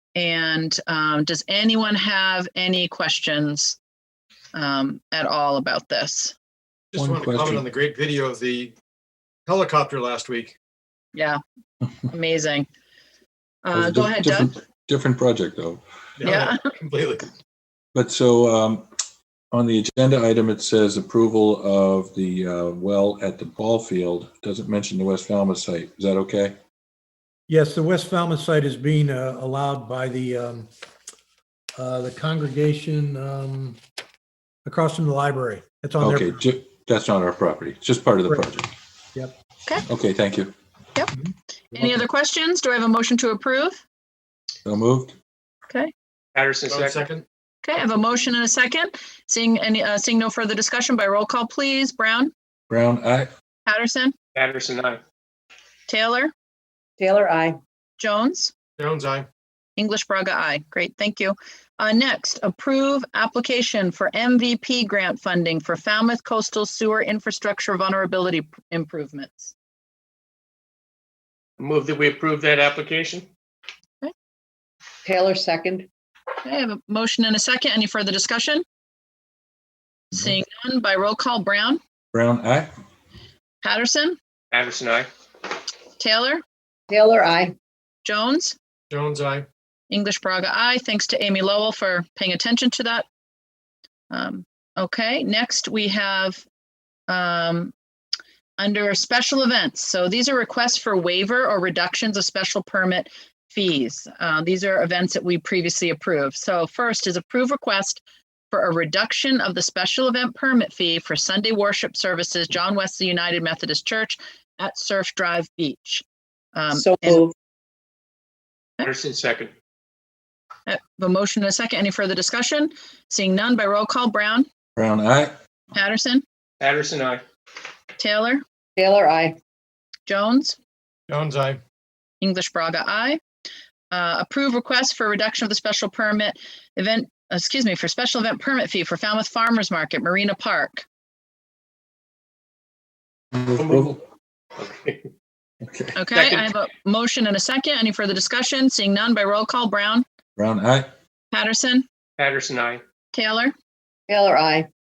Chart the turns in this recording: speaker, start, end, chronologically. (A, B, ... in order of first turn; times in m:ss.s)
0:00.2-0:03.8 A
0:04.5-0:06.4 A
0:06.9-0:08.7 B
0:07.0-0:07.6 C
0:09.5-0:10.5 B
0:11.1-0:11.4 A
0:12.1-0:12.7 A
0:13.6-0:14.6 A
0:13.7-0:15.8 C
0:16.2-0:17.3 B
0:16.2-0:16.6 A
0:17.9-0:18.9 C
0:19.5-0:26.6 C
0:27.5-0:30.7 D
0:31.8-0:33.8 D
0:34.6-0:36.4 D
0:36.0-0:38.7 C
0:39.9-0:40.6 C
0:41.7-0:43.8 A
0:44.6-0:45.2 C
0:46.4-0:47.1 E
0:46.7-0:47.2 B
0:47.6-0:52.3 A
0:52.7-0:53.3 C
0:53.7-0:54.1 A
0:54.4-0:55.0 E
0:55.9-0:56.3 A
0:57.0-0:57.6 F
0:58.0-0:58.5 A
0:58.8-0:59.3 B
0:59.8-1:09.5 A
1:11.6-1:13.3 E
1:15.0-1:15.9 F
1:16.4-1:18.6 A
1:20.1-1:21.8 A
1:22.1-1:22.7 C
1:23.6-1:24.2 A
1:24.5-1:25.1 E
1:26.0-1:26.4 A
1:26.9-1:27.6 F
1:28.0-1:28.6 A
1:28.9-1:29.5 B
1:29.9-1:33.0 A
1:34.1-1:36.4 A
1:37.1-1:37.7 A
1:38.6-1:57.3 A
1:56.7-1:57.3 F
1:58.8-1:59.5 E
2:00.7-2:04.5 A
2:04.8-2:05.4 C
2:05.7-2:06.2 A
2:06.6-2:07.2 E
2:08.0-2:08.4 A
2:08.8-2:09.4 F
2:10.1-2:10.6 A
2:11.1-2:11.6 B
2:12.2-2:13.2 A
2:13.9-2:20.9 A
2:23.3-2:24.0 C
2:23.6-2:24.0 E
2:24.6-2:25.0 E
2:25.6-2:26.0 C
2:26.0-2:30.0 A
2:26.1-2:26.5 E
2:30.4-2:30.9 C
2:31.3-2:31.8 A
2:32.2-2:32.8 E
2:33.1-2:33.5 A
2:34.1-2:34.7 F